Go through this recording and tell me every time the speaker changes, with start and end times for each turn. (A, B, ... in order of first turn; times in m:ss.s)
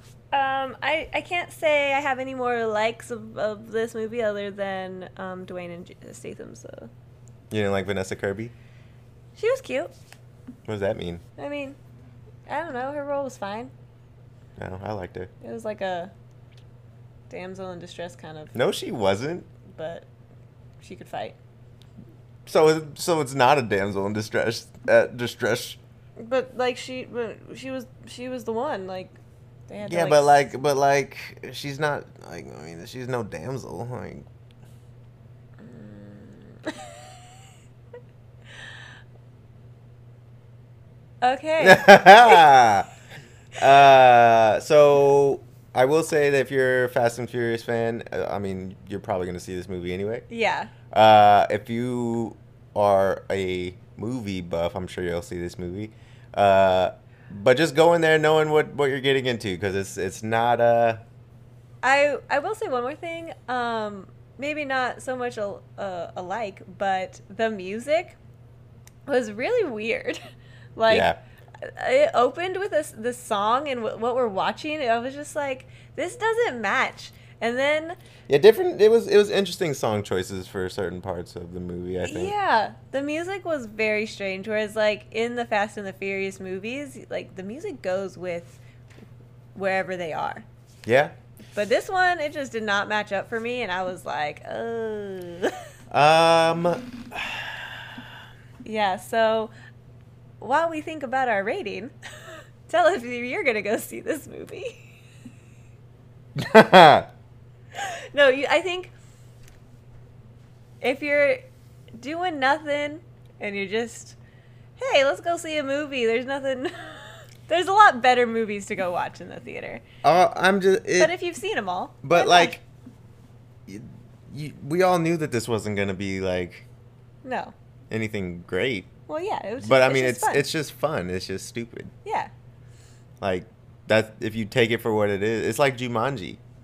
0:00.3-0:06.9 A
0:07.5-0:08.5 B
0:09.4-0:09.9 A
0:10.7-0:11.2 B
0:11.4-0:11.8 A
0:12.5-0:13.7 A
0:14.6-0:15.3 B
0:15.4-0:16.1 A
0:17.3-0:18.5 A
0:18.5-0:19.5 B
0:19.7-0:20.1 A
0:20.8-0:21.4 A
0:22.5-0:25.8 B
0:26.2-0:29.2 A
0:29.7-0:30.5 A
0:29.9-0:34.3 B
0:35.6-0:37.2 A
0:41.2-0:42.5 A
0:41.6-0:42.9 B
0:43.6-0:50.2 B
0:50.3-0:50.7 A
0:50.9-1:01.0 B
1:01.8-1:08.2 A
1:09.1-1:10.2 A
1:10.8-1:18.0 A
1:10.9-1:11.2 B
1:18.3-1:22.3 B
1:22.0-1:28.6 A
1:29.6-1:30.4 A
1:30.9-1:31.1 B
1:31.5-1:35.6 A
1:35.9-1:37.6 B
1:38.6-1:39.5 A
1:40.4-1:44.9 A
1:46.4-1:47.1 B
1:47.8-1:48.9 A
1:50.8-1:51.4 A
1:52.0-1:54.2 A
1:54.8-1:59.8 A
2:00.0-2:01.1 B
2:01.0-2:02.6 A
2:02.0-2:02.6 B
2:03.7-2:06.7 B
2:07.2-2:07.5 A
2:07.9-2:08.9 B
2:09.1-2:10.5 A
2:09.6-2:11.9 B
2:12.0-2:12.3 A
2:13.2-2:16.4 B